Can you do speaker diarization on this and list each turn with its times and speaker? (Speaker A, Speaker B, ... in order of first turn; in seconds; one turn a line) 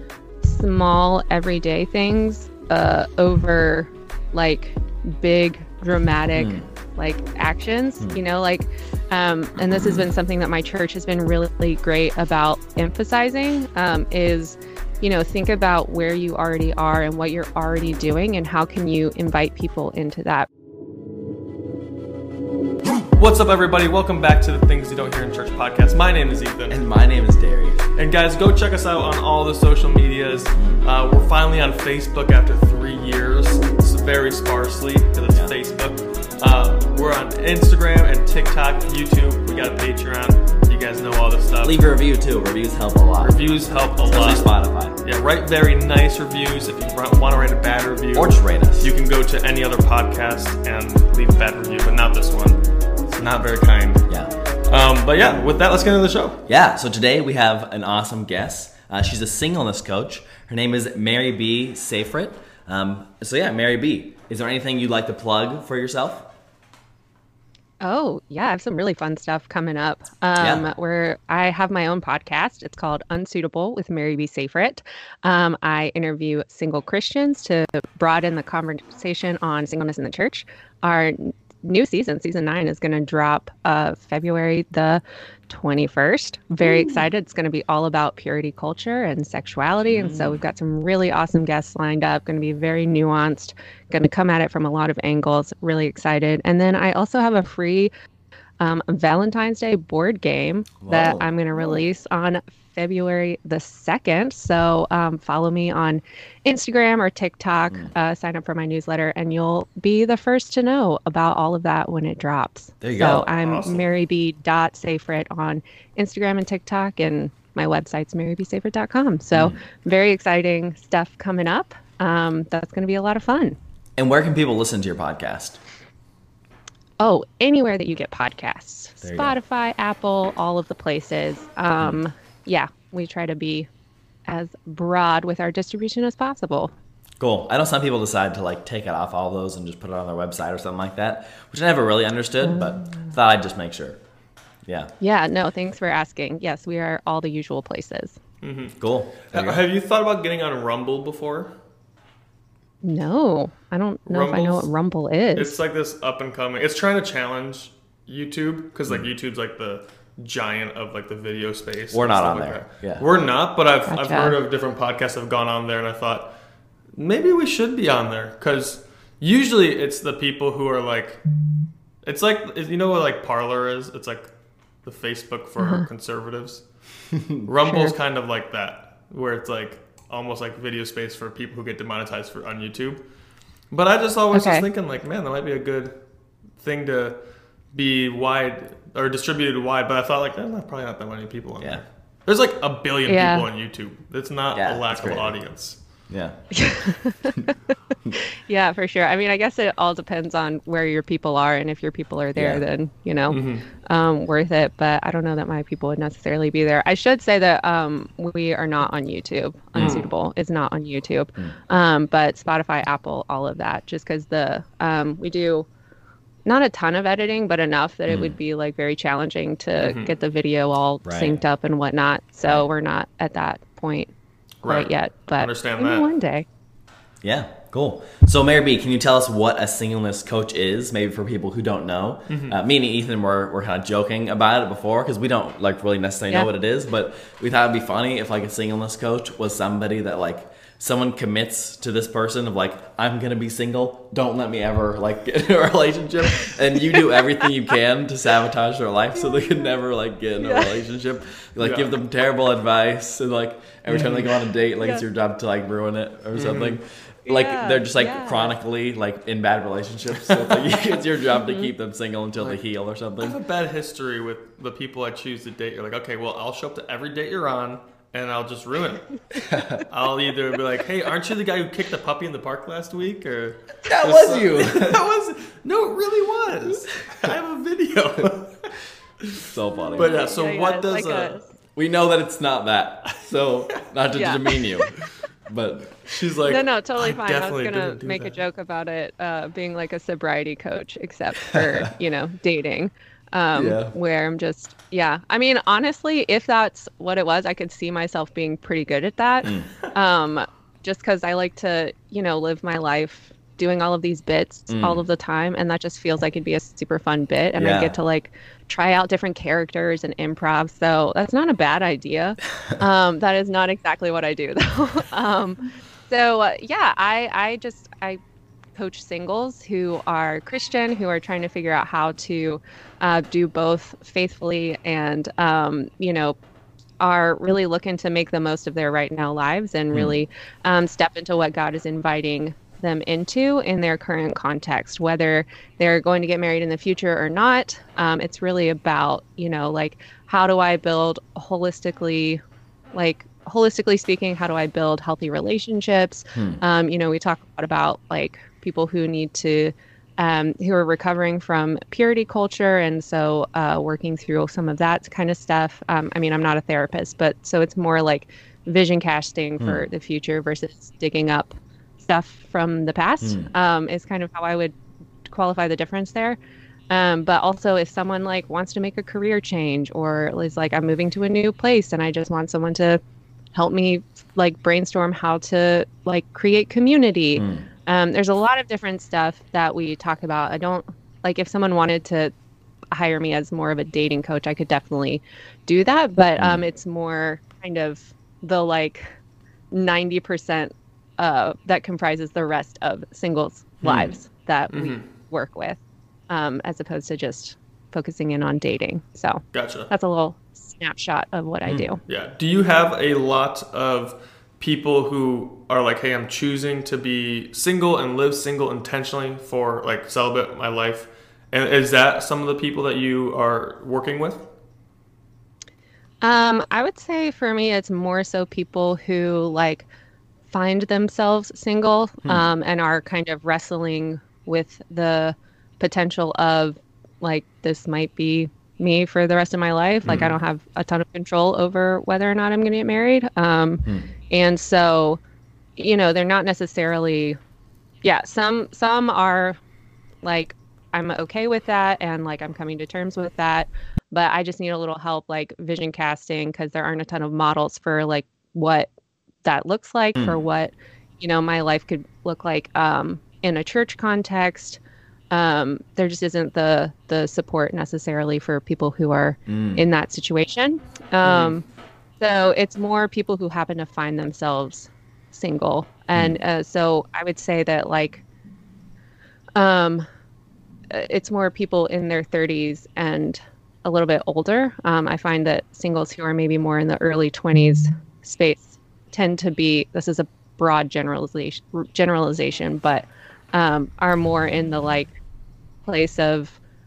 Speaker A: 0.4-20.5
Speaker B: 6.3-6.7
Speaker C: 23.1-26.8
Speaker B: 26.7-27.8
Speaker C: 27.9-41.8
Speaker B: 30.5-30.8
Speaker B: 41.6-43.3
Speaker C: 43.2-44.5
Speaker B: 44.0-45.0
Speaker C: 45.0-54.1
Speaker B: 48.1-48.9
Speaker C: 54.6-56.4
Speaker B: 56.5-66.3
Speaker A: 67.8-97.9
Speaker B: 70.4-70.7
Speaker B: 89.9-90.4
Speaker A: 98.6-123.5
Speaker B: 100.8-101.3
Speaker B: 112.8-113.2
Speaker C: 113.1-113.8
Speaker B: 124.0-125.6
Speaker A: 127.0-133.7
Speaker B: 129.0-129.4
Speaker A: 134.3-136.7
Speaker B: 137.2-144.0
Speaker A: 142.5-143.1
Speaker B: 144.6-144.9
Speaker A: 145.0-148.2
Speaker C: 148.4-151.6
Speaker B: 148.8-149.6
Speaker A: 152.8-155.6
Speaker C: 154.1-154.7
Speaker C: 155.3-166.4
Speaker B: 161.9-163.1
Speaker A: 163.9-164.4
Speaker C: 166.9-171.2
Speaker C: 172.0-174.3
Speaker C: 174.8-176.7
Speaker A: 175.6-175.8
Speaker B: 177.1-177.4
Speaker C: 177.4-183.0
Speaker A: 177.7-177.9
Speaker C: 183.7-186.0
Speaker A: 184.3-184.7
Speaker C: 186.6-187.2
Speaker C: 187.7-195.8
Speaker A: 193.1-193.4
Speaker B: 194.5-195.4
Speaker B: 196.1-196.6
Speaker A: 196.5-197.5
Speaker A: 198.3-215.7
Speaker B: 202.3-202.6
Speaker C: 203.3-203.7
Speaker C: 209.8-210.1
Speaker A: 216.4-224.1
Speaker B: 218.1-218.3
Speaker C: 219.8-220.1
Speaker B: 221.0-221.4
Speaker C: 224.6-226.1
Speaker A: 224.6-226.4
Speaker B: 227.2-263.4
Speaker C: 232.3-232.6
Speaker A: 250.4-250.7
Speaker C: 251.6-251.9
Speaker C: 253.9-254.3
Speaker C: 256.3-256.8
Speaker A: 257.3-258.5
Speaker C: 260.3-260.6
Speaker C: 263.2-269.2
Speaker B: 269.3-269.9
Speaker C: 269.9-281.4
Speaker B: 273.8-275.0
Speaker B: 276.5-277.3
Speaker B: 279.4-280.2
Speaker A: 279.9-281.5
Speaker B: 281.7-286.1
Speaker A: 284.1-284.4
Speaker C: 286.0-288.4
Speaker A: 286.4-318.2
Speaker B: 293.5-293.9
Speaker B: 299.4-299.7
Speaker B: 304.7-305.0
Speaker B: 307.6-307.9
Speaker A: 318.7-326.4
Speaker A: 327.0-342.4
Speaker A: 342.9-364.7
Speaker B: 346.3-346.6
Speaker A: 365.3-366.4
Speaker A: 366.9-373.0
Speaker A: 373.5-382.3
Speaker B: 377.4-377.6
Speaker A: 382.9-389.1
Speaker B: 386.4-386.6
Speaker A: 389.7-402.0
Speaker B: 393.8-394.1
Speaker C: 394.7-395.0
Speaker C: 399.5-399.9
Speaker C: 402.1-414.5
Speaker A: 416.2-419.9
Speaker A: 420.5-435.2
Speaker A: 435.8-437.4
Speaker A: 438.0-439.6
Speaker A: 440.2-448.9
Speaker A: 449.4-454.8
Speaker B: 450.1-450.4
Speaker A: 455.3-461.6
Speaker B: 459.5-459.8
Speaker C: 461.2-461.5
Speaker A: 462.2-468.2
Speaker A: 469.6-470.1
Speaker A: 470.9-485.2
Speaker A: 485.9-486.6